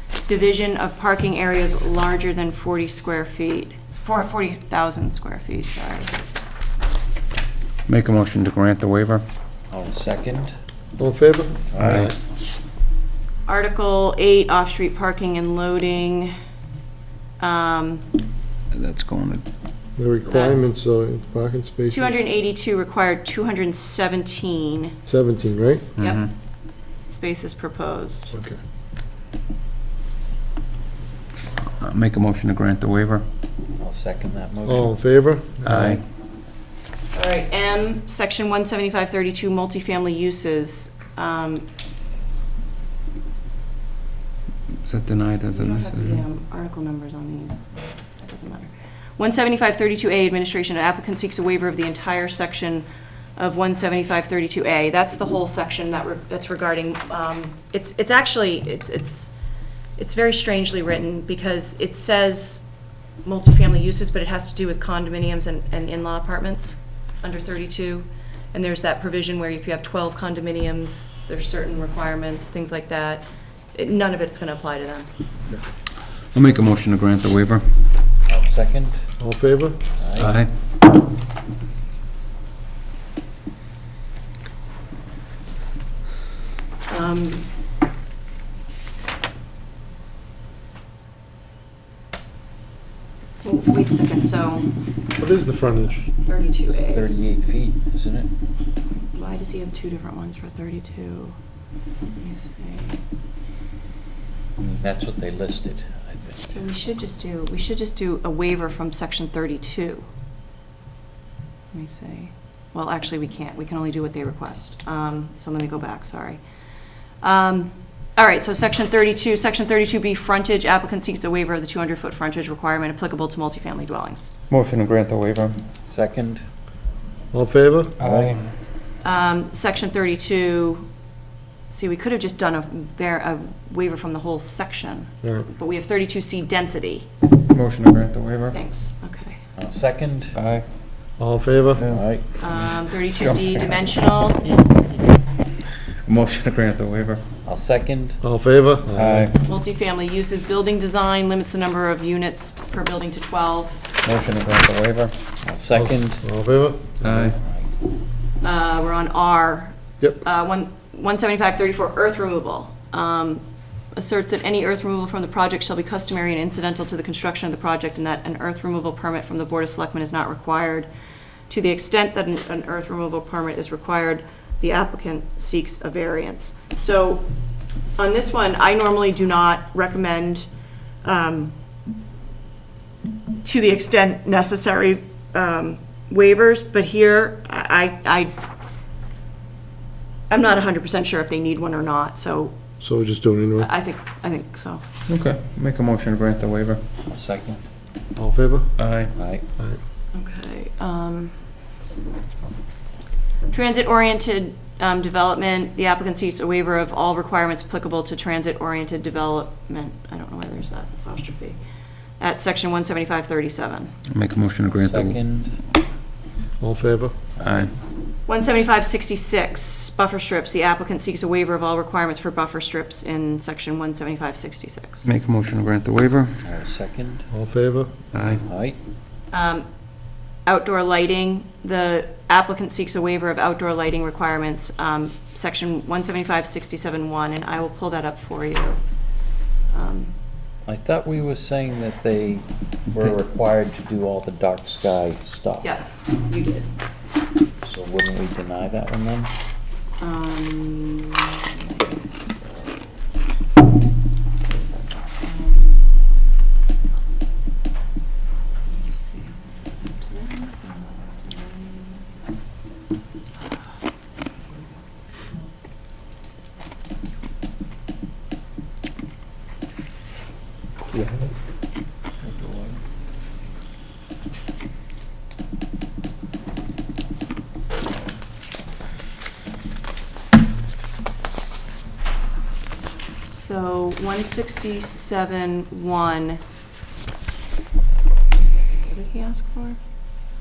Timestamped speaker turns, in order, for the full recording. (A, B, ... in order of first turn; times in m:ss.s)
0:00.3-0:06.1 A
0:07.9-0:09.2 B
0:09.7-0:10.5 C
0:11.0-0:12.1 D
0:11.7-0:12.1 C
0:11.8-0:12.1 B
0:13.5-0:16.4 A
0:17.4-0:18.0 A
0:18.7-0:19.4 B
0:20.0-0:22.1 D
0:20.2-0:20.7 A
0:21.9-0:25.0 A
0:25.1-0:25.9 D
0:26.0-0:26.3 B
0:26.0-0:26.4 A
0:27.1-0:28.3 A
0:28.3-0:28.6 D
0:31.8-0:33.2 B
0:33.8-0:35.0 C
0:34.6-0:36.0 D
0:35.6-0:36.0 B
0:37.1-0:41.7 A
0:44.8-0:46.2 B
0:45.5-0:52.8 A
0:53.4-0:59.3 A
1:00.0-1:02.6 A
1:03.2-1:15.1 A
1:16.3-1:17.7 B
1:18.3-1:19.2 C
1:19.2-1:19.8 D
1:20.0-1:20.4 C
1:20.2-1:20.5 B
1:26.9-1:27.5 A
1:33.4-1:34.7 A
1:35.2-1:36.0 D
1:36.2-1:37.1 A
1:36.7-1:38.3 C
1:39.1-1:41.4 A
1:42.2-1:43.0 A
1:44.6-1:46.6 C
1:46.5-1:50.1 A
1:51.7-1:56.4 A
1:57.2-2:04.3 A
2:04.5-2:05.6 B
2:05.9-2:06.5 C
2:07.3-2:07.9 D
2:08.0-2:08.4 C
2:08.0-2:08.5 B
2:09.0-2:10.9 A
2:11.7-2:17.1 A
2:17.5-2:18.6 B
2:18.5-2:19.4 A
2:19.6-2:20.4 C
2:20.3-2:20.7 B
2:21.2-2:21.9 D
2:21.8-2:23.8 B
2:21.8-2:22.2 C
2:22.4-2:24.6 A
2:26.0-2:27.3 B
2:27.4-2:28.2 C
2:28.2-2:29.3 D
2:29.0-2:29.5 B
2:29.4-2:33.9 A
2:34.0-2:35.2 B
2:35.4-2:36.4 C
2:35.7-2:36.9 D
2:37.0-2:37.4 B
2:37.0-2:37.7 C
2:38.4-2:50.9 A
2:51.5-2:57.3 A
2:58.0-3:00.5 A
3:01.0-3:01.5 A
3:03.4-3:08.3 A
3:10.3-3:12.5 A
3:12.8-3:13.7 D
3:13.6-3:14.8 A
3:15.1-3:16.9 B
3:17.1-3:17.6 C
3:18.2-3:19.0 D
3:18.8-3:19.1 B
3:19.1-3:19.4 C
3:20.1-3:21.4 A
3:23.5-3:31.6 A
3:32.2-3:33.9 A
3:34.1-3:35.2 B
3:34.7-3:35.6 C
3:36.6-3:37.1 D
3:37.4-3:37.7 C
3:37.4-3:37.7 B
3:38.3-3:45.2 A
3:45.0-3:46.4 B
3:46.4-3:47.3 C
3:47.3-3:48.1 D
3:48.1-3:48.5 B
3:48.2-3:48.8 C
3:49.3-3:49.7 A
3:50.4-3:58.8 A
3:59.7-4:00.1 A
4:00.7-4:05.8 C
4:05.6-4:06.7 A
4:07.6-4:09.3 C
4:10.0-4:12.8 A
4:14.5-4:15.8 A
4:18.7-4:22.0 A
4:32.2-4:32.8 B
4:43.3-4:46.4 A
4:48.5-4:49.8 A